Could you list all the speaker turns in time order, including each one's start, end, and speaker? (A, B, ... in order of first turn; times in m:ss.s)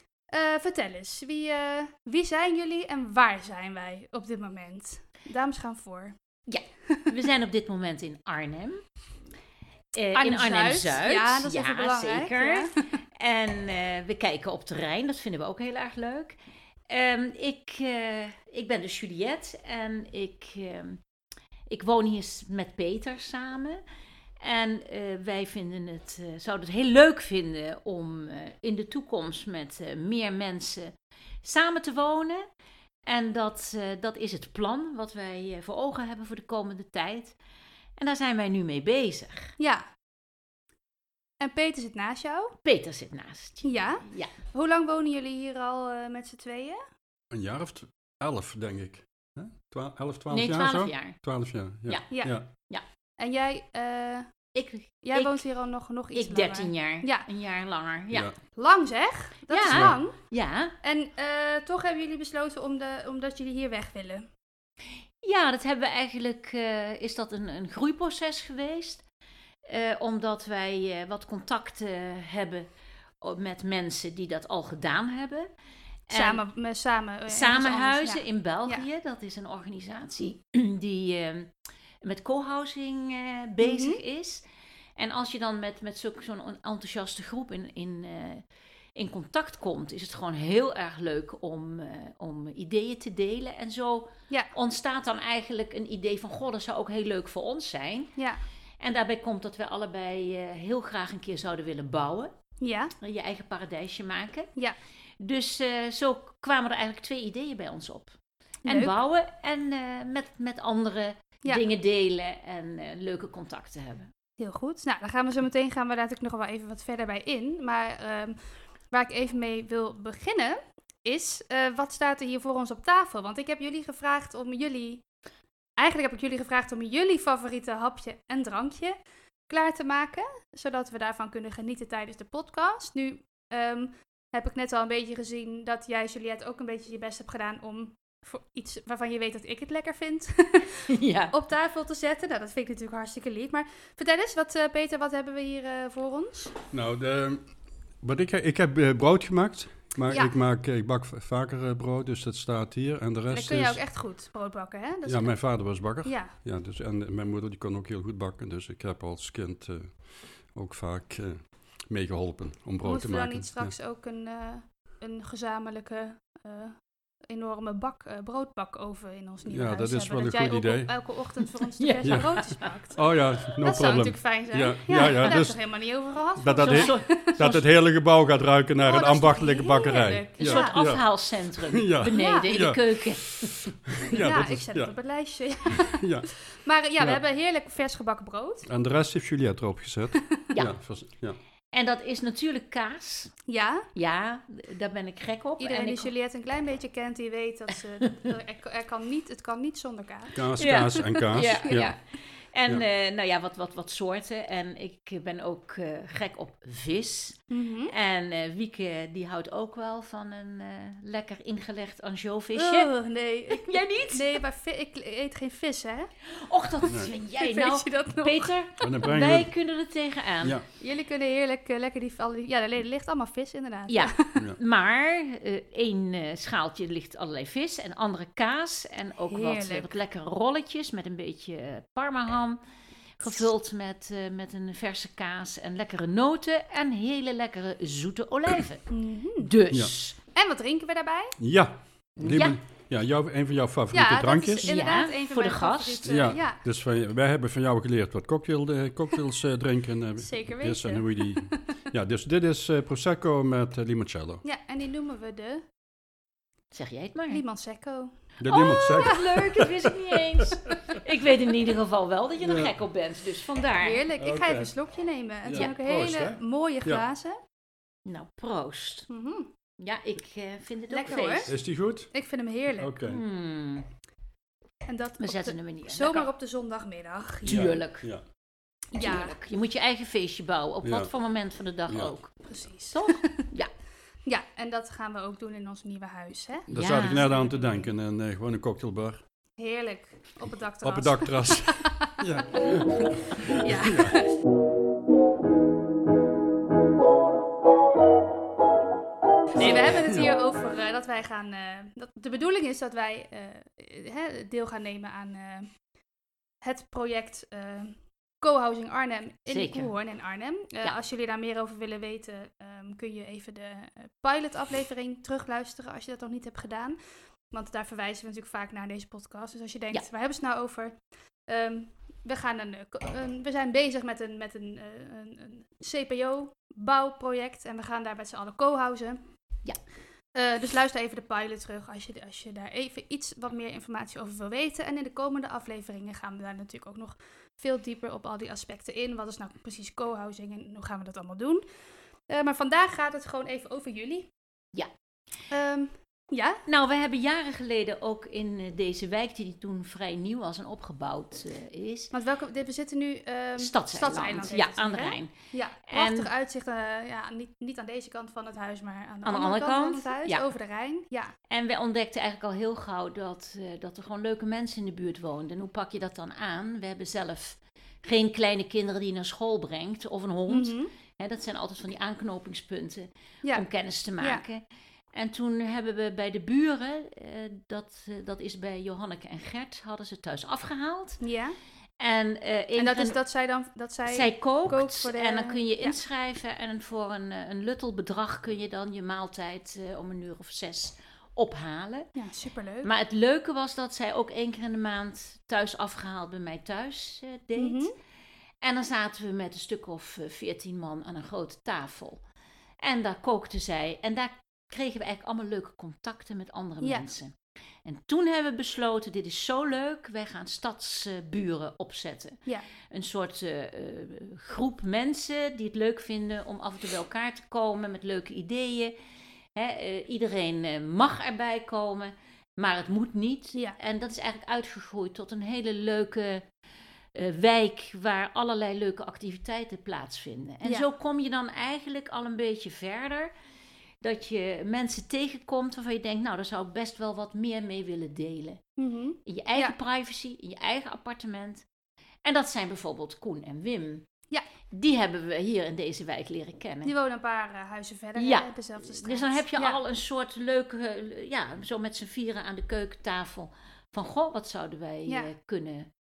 0:00.3-0:06.1 A
0:06.5-0:08.8 B
0:09.9-0:16.4 B
0:10.2-0:12.8 A
0:16.9-0:21.0 B
0:21.7-0:23.8 B
0:24.4-0:32.4 B
0:33.0-0:37.4 B
0:38.0-0:39.6 B
0:39.6-0:39.8 A
0:41.4-0:42.6 A
0:42.6-0:44.3 B
0:43.6-0:46.8 A
0:47.3-0:52.5 C
0:50.3-0:51.2 B
0:51.8-0:52.8 B
0:52.1-0:52.4 A
0:53.2-0:54.3 A
0:54.5-0:55.4 B
0:55.0-0:57.3 A
0:56.1-0:58.3 B
0:58.1-0:58.4 C
0:58.5-1:00.2 A
0:59.5-1:00.7 B
0:59.7-1:00.0 C
1:00.8-1:04.3 A
1:05.2-1:09.0 B
1:09.6-1:12.7 B
1:13.2-1:15.5 B
1:16.1-1:16.4 B
1:16.1-1:18.8 A
1:17.3-1:21.5 B
1:22.0-1:24.4 B
1:23.6-1:24.0 A
1:25.0-1:28.4 B
1:28.9-1:38.1 B
1:38.8-1:42.3 B
1:42.6-1:42.9 A
1:43.0-1:44.5 B
1:45.2-1:54.1 B
1:48.6-1:48.9 A
1:54.4-1:58.4 A
1:58.9-2:05.0 A
2:05.8-2:08.9 A
2:09.5-2:26.5 A
2:20.9-2:21.3 B
2:26.7-2:33.8 C
2:33.3-2:36.4 A
2:35.0-2:43.7 C
2:42.8-2:57.6 A
2:49.4-2:51.0 C
2:51.8-2:52.7 B
2:52.0-2:55.6 C
2:56.4-3:04.9 C
2:56.6-2:57.1 B
2:58.8-3:00.8 A
3:00.4-3:03.7 B
3:02.1-3:02.5 A
3:04.1-3:08.7 A
3:05.7-3:06.3 C
3:08.7-3:11.4 C
3:10.5-3:10.8 B
3:11.7-3:13.3 B
3:13.5-3:13.9 A
3:13.9-3:16.1 B
3:15.6-3:21.9 A
3:20.3-3:21.9 C
3:20.6-3:32.9 B
3:27.5-3:27.9 A
3:32.5-3:36.1 A
3:33.5-3:34.4 B
3:36.4-3:40.6 B
3:36.8-3:37.1 C
3:37.2-3:38.6 A
3:38.8-3:39.5 C
3:40.8-3:44.4 A
3:43.9-3:52.6 B
3:49.3-3:49.9 A
3:53.2-4:00.2 B
3:58.9-3:59.5 A
4:00.2-4:01.4 A
4:01.4-4:04.7 C
4:02.2-4:02.6 B
4:03.9-4:06.6 A
4:04.6-4:06.2 B
4:06.0-4:14.4 C
4:10.2-4:11.8 A
4:14.4-4:15.6 A
4:16.7-4:17.4 B
4:17.3-4:18.1 A
4:18.4-4:20.7 C
4:18.5-4:24.0 B
4:22.4-4:22.7 C
4:23.8-4:27.4 A
4:24.2-4:24.7 C
4:25.4-4:27.0 C
4:28.0-4:29.1 B
4:29.1-4:29.5 A
4:29.8-4:31.5 B
4:30.9-4:31.6 A
4:31.5-4:32.1 C
4:32.1-4:32.9 A
4:32.8-4:33.2 C
4:33.0-4:33.8 B
4:34.8-4:37.7 A
4:35.2-4:36.3 B
4:37.4-4:38.2 C
4:37.4-4:38.1 B
4:38.9-4:39.3 A
4:38.9-4:43.7 B
4:40.8-4:41.1 C
4:41.9-4:42.1 C
4:42.4-4:43.5 A
4:44.2-4:46.7 A
4:46.7-4:49.2 C
4:46.7-4:47.3 B
4:49.6-4:52.8 A
4:50.8-4:54.2 C
4:53.4-4:54.3 A
4:59.6-5:05.7 A
4:59.6-5:00.0 B
4:59.7-5:00.3 C
5:06.6-5:29.2 A
5:09.5-5:09.9 B
5:30.3-5:41.6 A
5:42.3-5:44.3 A
5:45.5-5:46.6 A
5:46.6-5:52.1 B
5:52.1-6:01.4 A
5:53.6-5:56.3 B
5:59.2-6:00.5 B
6:01.5-6:21.2 B
6:10.5-6:10.9 A
6:14.2-6:14.4 A
6:21.2-6:21.6 A
6:22.0-6:23.2 B
6:22.8-6:26.0 A
6:24.0-6:32.1 B
6:32.2-6:32.9 A
6:32.8-6:37.9 B
6:37.6-6:37.9 A
6:38.6-6:42.2 B
6:42.8-6:58.9 B
6:59.5-7:06.4 B
7:07.1-7:13.3 B
7:14.0-7:18.6 B
7:18.8-7:19.8 A
7:19.2-7:21.6 B
7:22.2-7:24.1 B
7:24.7-7:26.9 B
7:26.8-7:29.8 A
7:28.2-7:35.9 B